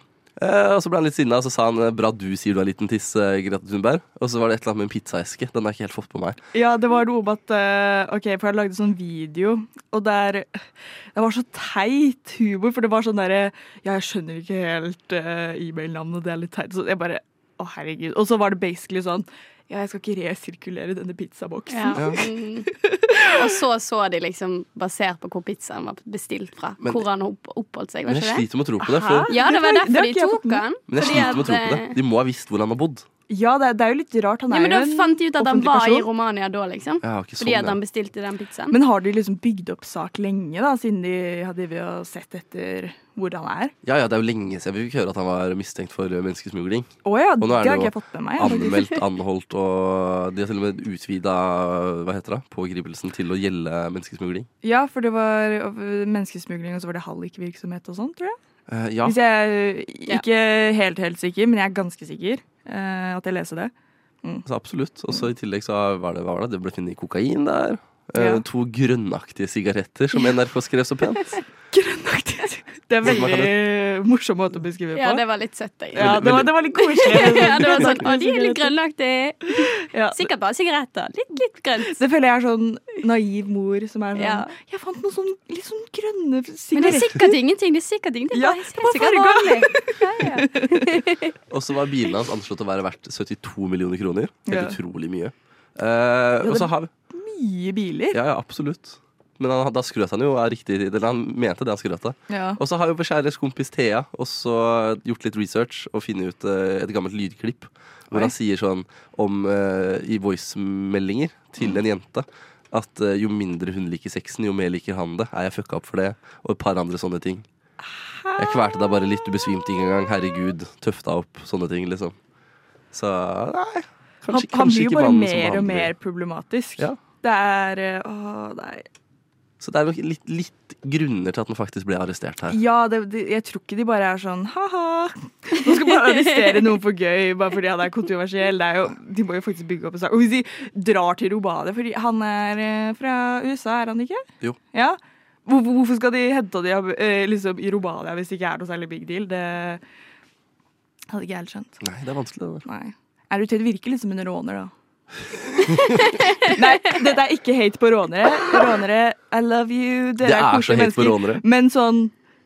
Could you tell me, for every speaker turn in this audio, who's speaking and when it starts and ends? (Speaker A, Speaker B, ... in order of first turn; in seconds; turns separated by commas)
Speaker A: 0.4-6.4, Speaker B: 6.5-10.6, Speaker B: 11.1-22.3, Speaker C: 21.7-22.7, Speaker A: 21.9-22.2, Speaker B: 22.8-23.3, Speaker C: 23.2-28.4, Speaker A: 28.1-29.3, Speaker B: 28.8-31.4, Speaker C: 29.3-31.9, Speaker A: 30.9-33.0, Speaker B: 33.3-36.1, Speaker C: 34.5-38.8, Speaker A: 37.0-37.8, Speaker B: 38.7-43.7, Speaker A: 43.8-54.5, Speaker B: 47.0-48.8, Speaker B: 54.6-58.4, Speaker A: 58.7-59.2, Speaker B: 59.0-63.7, Speaker A: 64.5-71.3, Speaker B: 68.2-68.4, Speaker B: 71.7-75.2, Speaker A: 73.0-73.5, Speaker C: 74.9-82.0, Speaker B: 75.9-78.7, Speaker A: 76.0-76.5, Speaker A: 77.5-78.0, Speaker B: 79.9-80.3, Speaker B: 81.8-87.3, Speaker C: 84.1-84.5, Speaker C: 86.7-91.3, Speaker B: 88.3-91.0, Speaker A: 91.5-96.9, Speaker B: 94.5-94.8, Speaker B: 96.4-98.2, Speaker A: 98.1-117.5, Speaker B: 102.3-102.6, Speaker B: 118.0-118.7, Speaker A: 118.4-122.2, Speaker A: 122.9-125.9, Speaker B: 124.3-128.8, Speaker A: 129.6-132.6, Speaker B: 132.5-149.8, Speaker B: 151.1-151.8, Speaker A: 151.8-152.6, Speaker B: 152.6-154.7, Speaker A: 155.6-156.1, Speaker B: 156.4-162.1, Speaker A: 160.2-161.4